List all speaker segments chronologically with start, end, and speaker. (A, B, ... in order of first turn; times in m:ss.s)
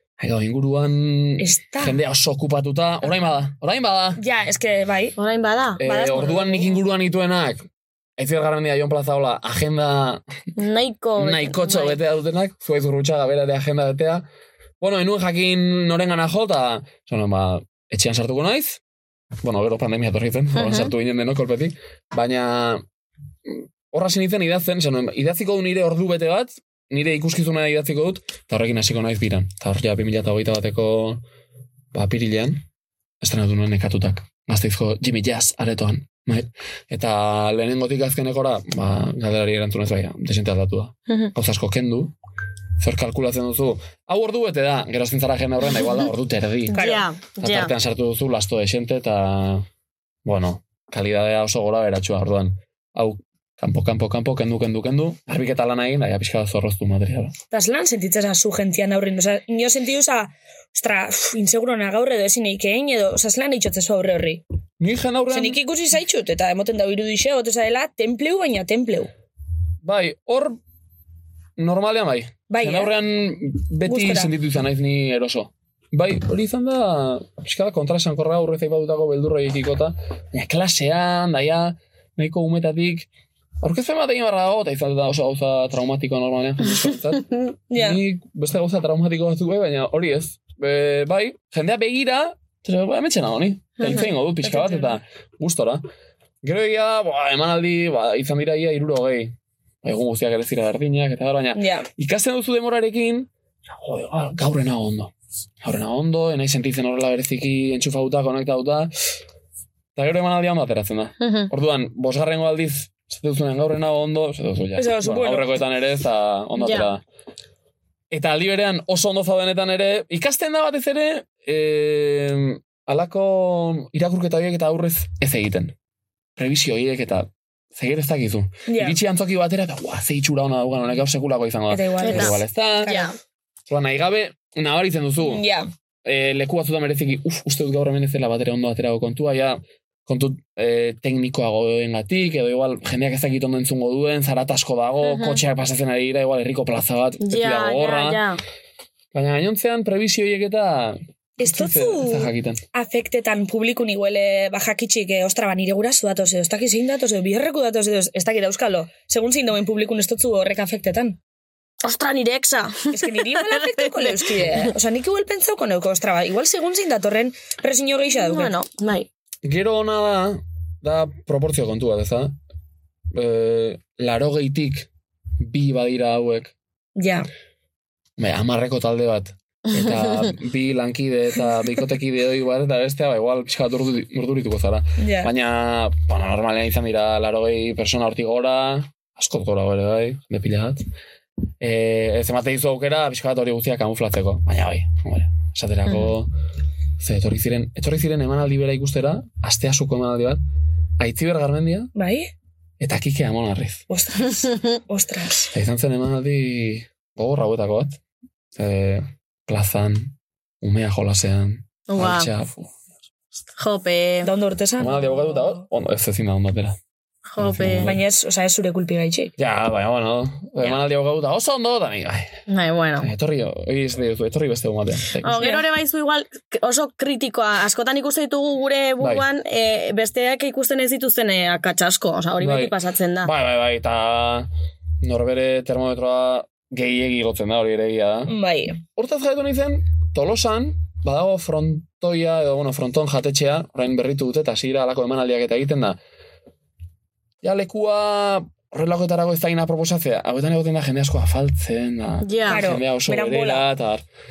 0:00.2-0:04.2 A
0:01.4-0:02.0 B
0:04.2-0:05.2 B
0:05.2-0:05.8 C
0:05.8-0:10.2 A
0:05.8-0:06.8 B
0:10.6-0:12.0 C
0:11.2-0:14.2 A
0:14.8-0:18.8 A
0:19.4-0:22.8 A
0:20.6-0:20.9 C
0:23.5-0:31.2 A
0:31.9-0:32.6 A
0:33.2-0:42.1 A
0:42.8-0:46.8 A
0:46.7-0:47.7 C
0:46.7-0:47.1 B
0:47.4-0:49.7 A
0:50.2-0:57.4 A
0:57.5-1:04.4 B
1:04.8-1:05.6 A
1:05.3-1:09.1 B
1:09.8-1:10.6 A
1:11.6-1:23.1 A
1:12.5-1:13.0 B
1:13.9-1:14.3 B
1:23.6-1:35.8 A
1:27.7-1:28.0 B
1:33.9-1:35.0 B
1:36.4-1:48.9 A
1:41.5-1:41.9 B
1:50.0-1:57.0 A
1:51.2-1:51.5 C
1:54.8-1:55.6 B
1:56.6-1:56.9 C
1:58.1-2:05.8 A
2:06.4-2:13.0 A
2:08.7-2:09.0 B
2:11.7-2:13.0 B
2:12.0-2:13.2 C
2:13.7-2:15.4 A
2:15.2-2:15.7 B
2:16.0-2:28.2 A
2:25.0-2:25.4 C
2:27.2-2:28.4 C
2:29.1-2:32.6 A
2:31.4-2:41.2 B
2:41.8-2:44.7 C
2:42.9-2:48.5 B
2:48.2-2:49.1 C
2:49.4-2:52.4 A
2:53.1-2:54.9 A
2:55.4-2:56.5 A
2:57.0-2:57.3 B
2:58.2-3:10.8 A
3:05.0-3:05.3 B
3:11.6-3:16.3 A
3:15.9-3:16.1 C
3:17.0-3:20.4 A
3:21.0-3:21.9 A
3:22.0-3:22.3 B
3:22.8-3:23.8 A
3:23.9-3:25.5 B
3:24.3-3:24.8 C
3:25.5-3:28.0 A
3:28.6-3:32.7 A
3:31.9-3:32.3 C
3:33.6-3:34.3 C
3:34.2-3:35.6 B
3:34.8-3:36.8 A
3:37.3-3:37.9 C
3:37.4-3:38.0 A
3:37.8-3:39.3 B
3:39.4-3:42.4 A
3:42.5-3:43.1 C
3:43.0-3:45.6 A
3:45.2-3:53.3 C
3:52.4-3:54.5 A
3:55.0-3:58.3 A
3:58.3-3:58.8 B
3:59.0-4:06.0 A
4:07.4-4:14.0 A
4:12.2-4:12.6 C
4:12.5-4:13.7 B